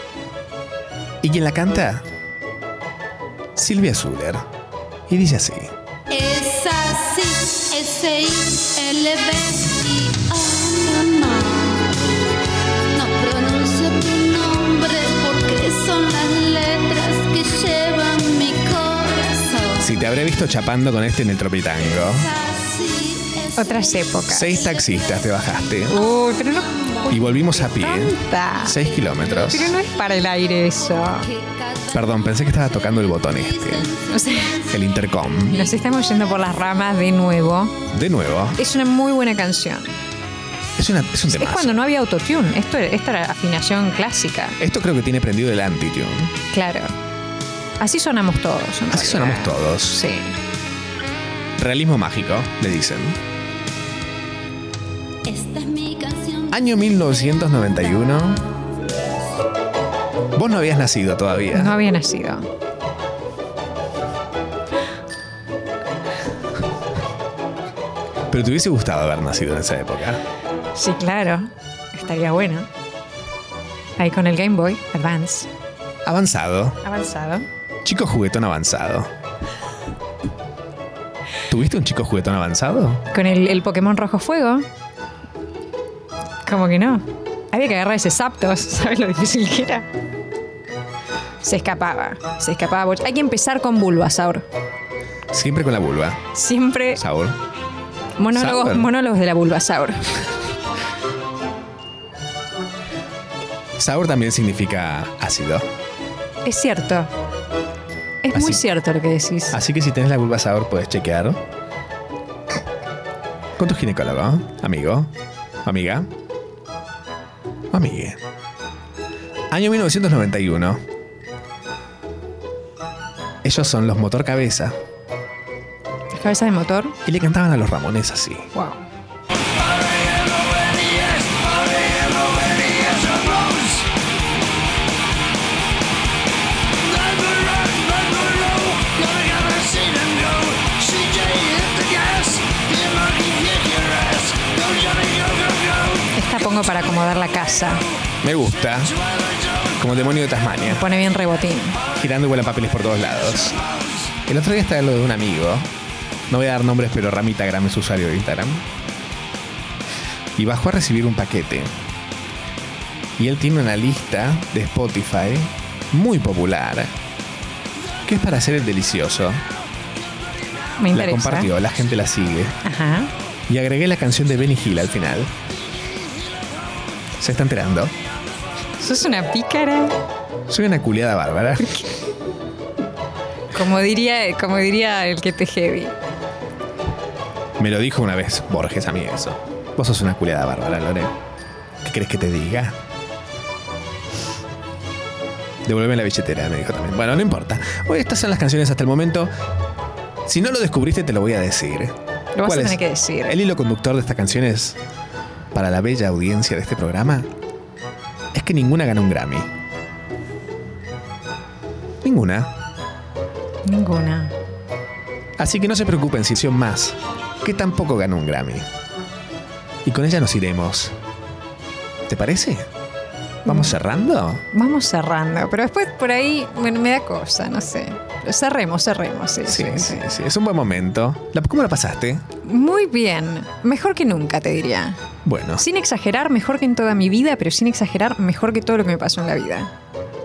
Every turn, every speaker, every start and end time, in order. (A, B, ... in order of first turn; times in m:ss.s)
0:01.2-0:02.0 A
0:03.6-0:04.4 A
0:05.1-0:05.7 A
0:06.1-0:11.9 B
0:12.9-0:19.8 B
0:19.8-0:22.3 A
0:21.8-0:25.2 B
0:23.6-0:24.5 C
0:24.3-0:26.0 A
0:25.9-0:27.1 B
0:26.0-0:26.7 C
0:27.1-0:29.7 A
0:27.7-0:28.7 C
0:28.7-0:29.4 B
0:29.5-0:31.2 C
0:31.2-0:34.7 B
0:31.9-0:33.9 A
0:34.1-0:34.4 C
0:34.7-0:35.6 A
0:35.6-0:37.7 C
0:37.9-0:38.6 A
0:38.6-0:39.9 C
0:40.8-0:41.8 A
0:41.4-0:44.5 C
0:44.6-0:46.4 A
0:46.5-0:46.9 C
0:47.8-0:49.5 C
0:48.9-0:50.0 A
0:50.0-0:50.3 C
0:51.6-0:53.2 A
0:55.3-0:56.6 B
0:56.5-0:58.4 A
1:00.4-1:01.8 A
1:01.6-1:02.4 C
1:08.3-1:10.2 A
1:10.8-1:12.6 C
1:14.0-1:15.5 C
1:16.0-1:16.8 A
1:16.8-1:17.4 C
1:17.8-1:19.1 A
1:21.5-1:23.0 A
1:23.1-1:24.6 C
1:26.5-1:29.8 C
1:31.4-1:34.4 C
1:35.3-1:36.2 A
1:36.4-1:36.9 C
1:36.9-1:37.4 A
1:38.2-1:40.0 C
1:38.4-1:38.9 A
1:43.8-1:45.6 A
1:46.4-1:47.1 C
1:48.2-1:49.6 C
1:48.3-1:48.6 A
1:49.5-1:51.4 A
1:53.6-1:55.1 A
1:55.6-1:56.1 A
1:57.7-1:58.2 A
1:59.5-2:00.8 A
2:03.4-2:04.8 A
2:06.2-2:06.9 C
2:07.0-2:08.5 A
2:08.6-2:08.8 C
2:12.8-2:13.4 B
2:16.9-2:23.8 B
2:24.4-2:25.4 B
2:26.1-2:27.8 C
2:28.2-2:28.9 A
2:29.8-2:30.8 A
2:30.7-2:31.8 C
2:32.0-2:33.6 A
2:34.3-2:35.7 A
2:36.3-2:38.6 A
2:40.4-2:41.7 A
2:43.2-2:46.9 A
2:48.1-2:49.4 A
2:50.8-2:51.5 C
2:50.9-2:52.6 A
2:52.7-2:53.1 C
2:53.5-2:55.3 A
2:57.2-2:57.9 A
2:58.8-2:59.9 C
3:00.5-3:01.7 A
3:03.6-3:05.9 C
3:07.6-3:11.1 A
3:11.8-3:12.7 A
3:15.6-3:19.3 A
3:20.3-3:24.8 A
3:22.4-3:23.3 C
3:25.5-3:27.3 A
3:28.3-3:29.5 A
3:32.0-3:32.5 A
3:33.7-3:34.3 C
3:35.4-3:38.7 A
3:39.8-3:40.9 A
3:42.1-3:42.6 A
3:43.4-3:44.4 A
3:44.5-3:50.0 C
3:49.5-3:52.2 A
3:52.4-3:55.0 C
3:55.2-3:55.6 A
3:55.6-3:59.7 C